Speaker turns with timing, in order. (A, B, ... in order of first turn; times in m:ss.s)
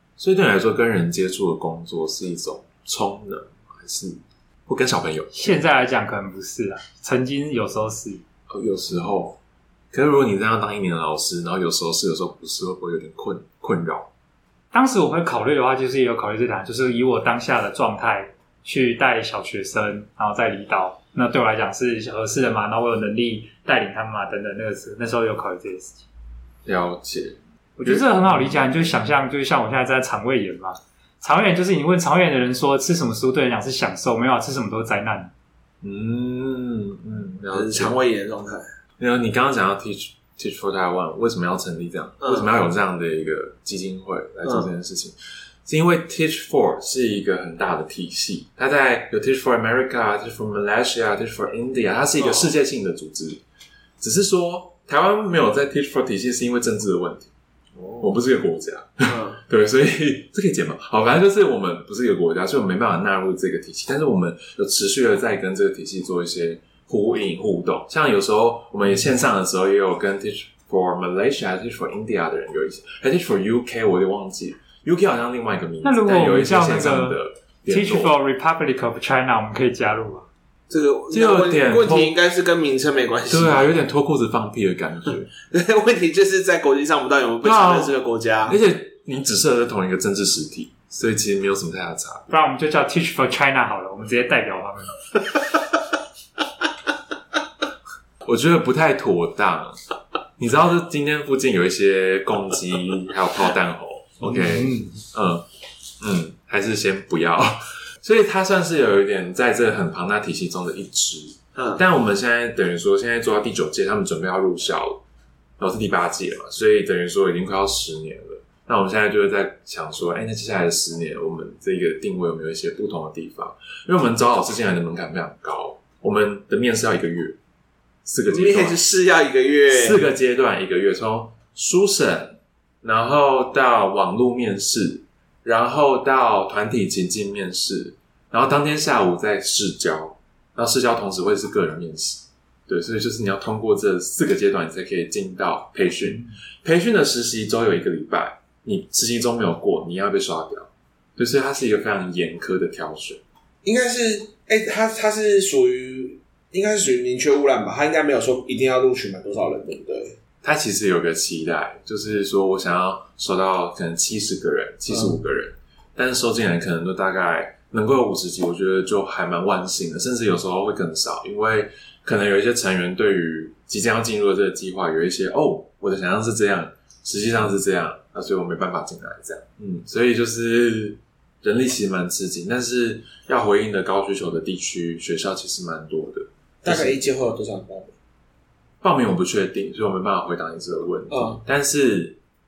0:00.2-0:05.5 A
0:05.3-0:08.2 B
0:08.5-0:09.4 A
0:09.9-0:14.1 A
0:14.7-0:26.0 B
0:26.6-0:28.5 A
0:27.8-0:35.3 B
0:35.8-0:38.0 A
0:37.5-0:38.6 C
0:39.0-0:53.4 A
0:42.2-0:42.5 C
0:52.2-0:52.5 C
0:54.0-0:57.3 A
0:57.8-0:58.0 C
0:58.0-1:18.1 A
0:59.0-0:59.4 C
1:15.8-1:20.3 B
1:20.7-1:23.7 C
1:21.1-1:22.1 A
1:23.3-1:25.3 A
1:25.5-1:28.6 C
1:27.4-1:27.9 A
1:28.4-1:32.3 A
1:32.3-1:35.0 B
1:38.2-1:39.8 A
1:40.4-1:45.4 A
1:44.2-1:45.0 B
1:46.0-1:55.0 A
1:51.6-1:51.8 C
1:55.6-2:07.4 A
2:08.0-2:08.8 A
2:08.3-2:10.0 C
2:09.7-2:33.2 A
2:33.6-2:40.2 C
2:40.4-3:07.0 A
2:44.9-2:45.2 C
3:06.6-3:07.9 C
3:08.8-3:12.2 A
3:11.1-3:11.4 C